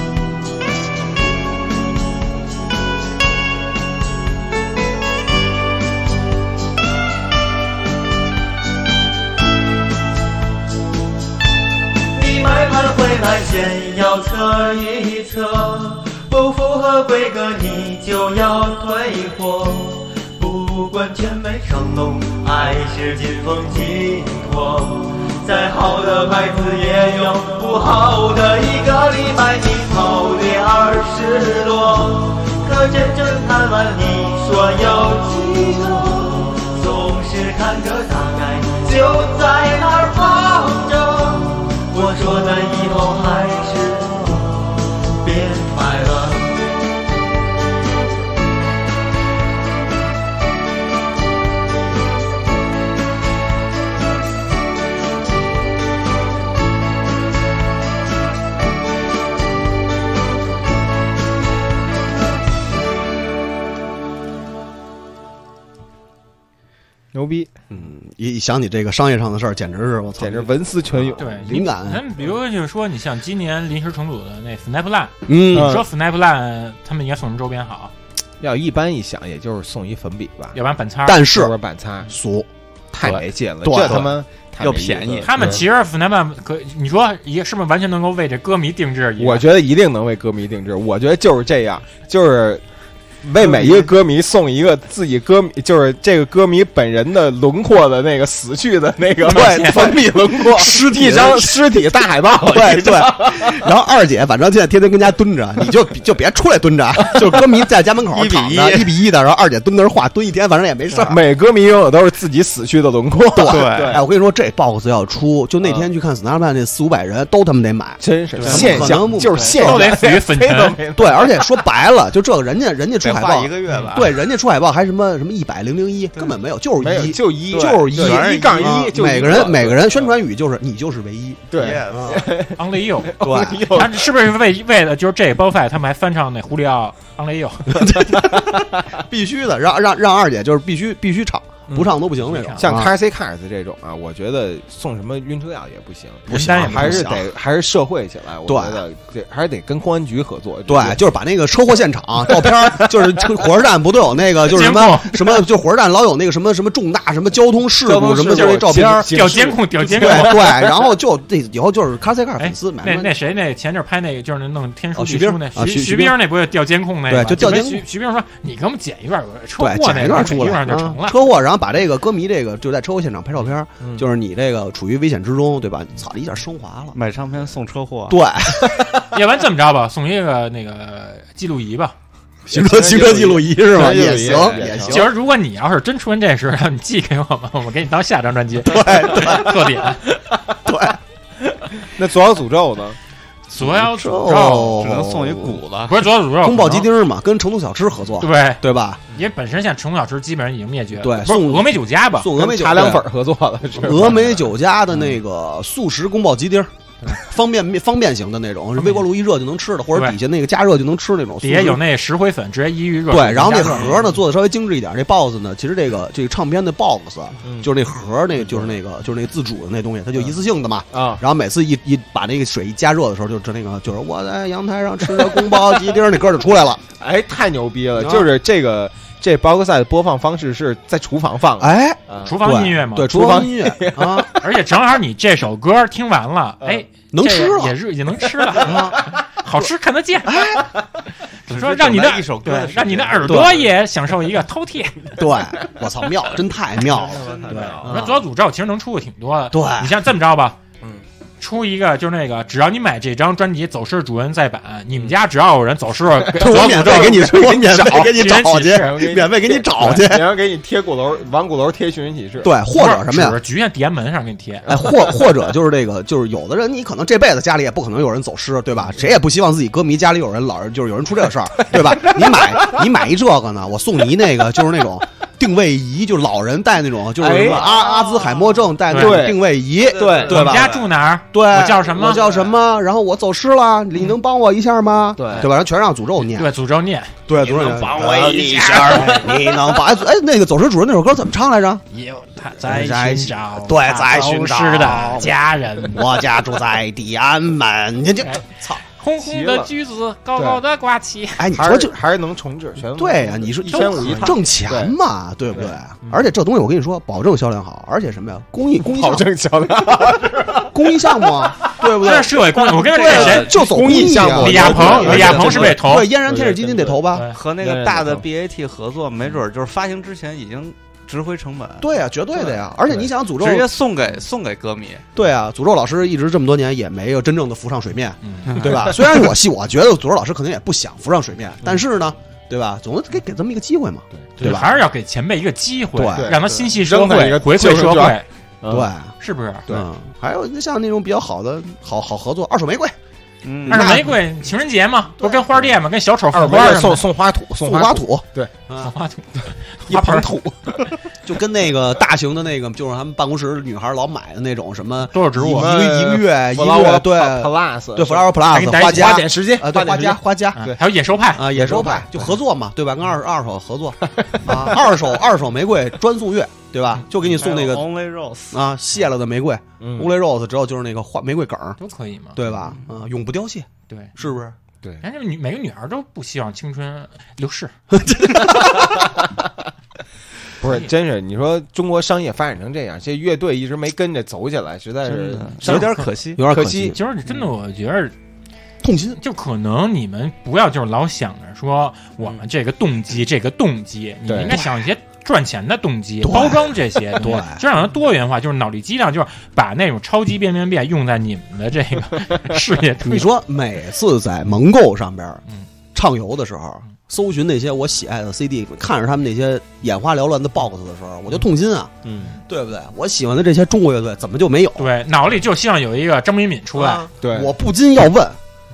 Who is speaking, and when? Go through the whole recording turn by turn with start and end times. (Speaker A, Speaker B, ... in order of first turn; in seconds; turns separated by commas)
Speaker A: 12.1-46.7, Speaker B: 67.1-67.5, Speaker C: 67.7-72.0, Speaker B: 70.2-71.3, Speaker D: 71.2-77.9, Speaker C: 75.3-75.8, Speaker B: 75.5-75.8, Speaker B: 78.4-80.6, Speaker D: 80.5-81.2, Speaker C: 81.1-81.6, Speaker B: 81.2-82.1, Speaker C: 82.1-82.5, Speaker B: 82.9-85.7, Speaker C: 83.6-84.2, Speaker E: 83.8-85.6, Speaker D: 85.2-89.5, Speaker B: 89.2-92.6, Speaker B: 93.2-103.7, Speaker C: 93.4-93.9, Speaker D: 99.2-99.9, Speaker C: 99.3-101.6, Speaker C: 102.4-111.2, Speaker B: 107.0-107.4, Speaker E: 108.1-108.9, Speaker B: 111.0-114.0, Speaker C: 113.3-120.0, Speaker E: 113.4-114.0, Speaker B: 115.6-115.9, Speaker B: 118.0-121.5, Speaker D: 118.4-120.8, Speaker C: 121.0-132.3, Speaker E: 123.0-124.2, Speaker D: 123.7-124.0, Speaker B: 126.8-130.1, Speaker E: 127.5-129.4, Speaker B: 131.5-134.1, Speaker E: 131.6-132.3, Speaker D: 132.6-133.2, Speaker C: 133.2-133.7, Speaker D: 133.7-138.1, Speaker C: 137.7-142.9, Speaker B: 141.7-142.0, Speaker D: 142.2-142.7, Speaker B: 142.6-151.0, Speaker C: 146.3-147.3, Speaker D: 146.3-147.1, Speaker C: 148.5-148.8, Speaker C: 150.7-159.2, Speaker B: 152.3-152.9, Speaker D: 154.5-155.4, Speaker B: 157.8-160.9, Speaker D: 158.4-160.5, Speaker C: 159.9-163.1, Speaker D: 162.4-171.2, Speaker C: 164.9-166.2, Speaker C: 167.1-167.9, Speaker C: 169.6-177.0, Speaker B: 173.8-174.1, Speaker E: 176.9-178.2, Speaker C: 178.1-179.0, Speaker D: 179.1-181.9, Speaker C: 182.5-185.1, Speaker B: 182.5-185.0, Speaker E: 184.0-184.7, Speaker D: 184.9-190.0, Speaker C: 188.6-189.9, Speaker C: 190.6-191.0, Speaker B: 191.8-193.0, Speaker D: 193.5-194.9, Speaker C: 193.6-195.6, Speaker E: 194.8-196.1, Speaker D: 195.9-196.9, Speaker C: 196.4-199.0, Speaker D: 198.2-198.6, Speaker D: 199.1-202.3, Speaker C: 201.0-203.1, Speaker B: 202.3-204.4, Speaker C: 203.8-211.8, Speaker D: 208.8-209.1, Speaker D: 211.4-214.1, Speaker C: 213.1-226.8, Speaker B: 217.4-217.7, Speaker B: 218.4-218.7, Speaker B: 220.9-221.2, Speaker B: 225.3-225.6, Speaker B: 227.0-232.3, Speaker C: 228.0-228.3, Speaker C: 231.6-234.3, Speaker D: 232.2-233.4, Speaker B: 233.1-234.4, Speaker D: 234.3-240.5, Speaker C: 237.1-237.8, Speaker C: 238.6-239.0, Speaker C: 240.3-240.7, Speaker D: 241.5-245.2, Speaker E: 241.5-243.7, Speaker C: 243.2-243.6, Speaker C: 245.2-247.3, Speaker E: 246.8-247.8, Speaker B: 247.0-247.9, Speaker D: 247.5-250.6, Speaker C: 247.8-248.2, Speaker C: 249.5-250.0, Speaker D: 251.4-259.1, Speaker C: 256.4-260.3, Speaker B: 256.4-258.1, Speaker B: 258.7-262.5, Speaker C: 262.4-263.4, Speaker D: 262.8-264.7, Speaker C: 264.7-280.8, Speaker B: 271.7-272.8, Speaker B: 277.2-277.6, Speaker E: 277.4-278.7, Speaker D: 278.9-279.3, Speaker B: 278.9-280.5, Speaker E: 279.8-280.9, Speaker D: 280.3-282.2, Speaker C: 281.3-286.5, Speaker B: 285.2-285.5, Speaker D: 286.3-287.2, Speaker C: 287.3-291.9, Speaker E: 287.4-289.1, Speaker B: 288.0-289.2, Speaker D: 288.6-289.2, Speaker D: 291.9-296.0, Speaker C: 292.6-295.3, Speaker C: 295.9-298.8, Speaker D: 299.0-301.5, Speaker B: 299.2-299.7, Speaker C: 301.4-302.0, Speaker B: 301.5-304.9, Speaker C: 302.9-309.3, Speaker D: 303.7-304.4, Speaker B: 308.8-311.7, Speaker C: 310.6-317.3, Speaker D: 311.9-313.6, Speaker B: 313.0-317.1, Speaker D: 314.3-316.1, Speaker E: 315.0-315.6, Speaker D: 317.1-317.4, Speaker E: 317.3-321.9, Speaker B: 317.6-318.3, Speaker C: 321.8-323.7, Speaker E: 323.3-325.1, Speaker C: 325.1-334.7, Speaker D: 328.2-328.7, Speaker D: 334.4-338.3, Speaker C: 335.9-336.3, Speaker B: 336.1-338.9, Speaker C: 338.7-339.1, Speaker D: 339.2-339.6, Speaker C: 339.7-342.9, Speaker E: 343.4-344.0, Speaker B: 343.7-344.2, Speaker D: 343.7-347.0, Speaker C: 345.2-345.6, Speaker B: 346.3-348.5, Speaker C: 347.6-348.9, Speaker D: 348.8-350.3, Speaker C: 349.9-350.7, Speaker C: 351.2-360.7, Speaker D: 355.1-355.7, Speaker B: 355.5-360.8, Speaker D: 358.5-359.3, Speaker D: 360.6-361.5, Speaker C: 361.3-367.9, Speaker B: 361.5-362.2, Speaker B: 364.1-364.6, Speaker E: 367.2-368.6, Speaker C: 368.5-371.8, Speaker B: 369.8-370.1, Speaker D: 371.8-372.4, Speaker C: 372.4-374.6, Speaker D: 373.9-374.1, Speaker D: 375.0-377.7, Speaker C: 377.9-379.1, Speaker B: 380.6-387.0, Speaker D: 380.6-380.9, Speaker E: 385.0-386.4, Speaker C: 385.6-387.0, Speaker D: 386.9-388.1, Speaker C: 388.8-389.2, Speaker D: 389.2-403.3, Speaker B: 394.3-394.6, Speaker C: 396.2-397.6, Speaker C: 403.0-405.4, Speaker C: 405.9-411.9, Speaker B: 412.1-412.3, Speaker C: 412.5-414.9, Speaker D: 414.8-417.1, Speaker C: 416.8-418.4, Speaker B: 417.2-417.5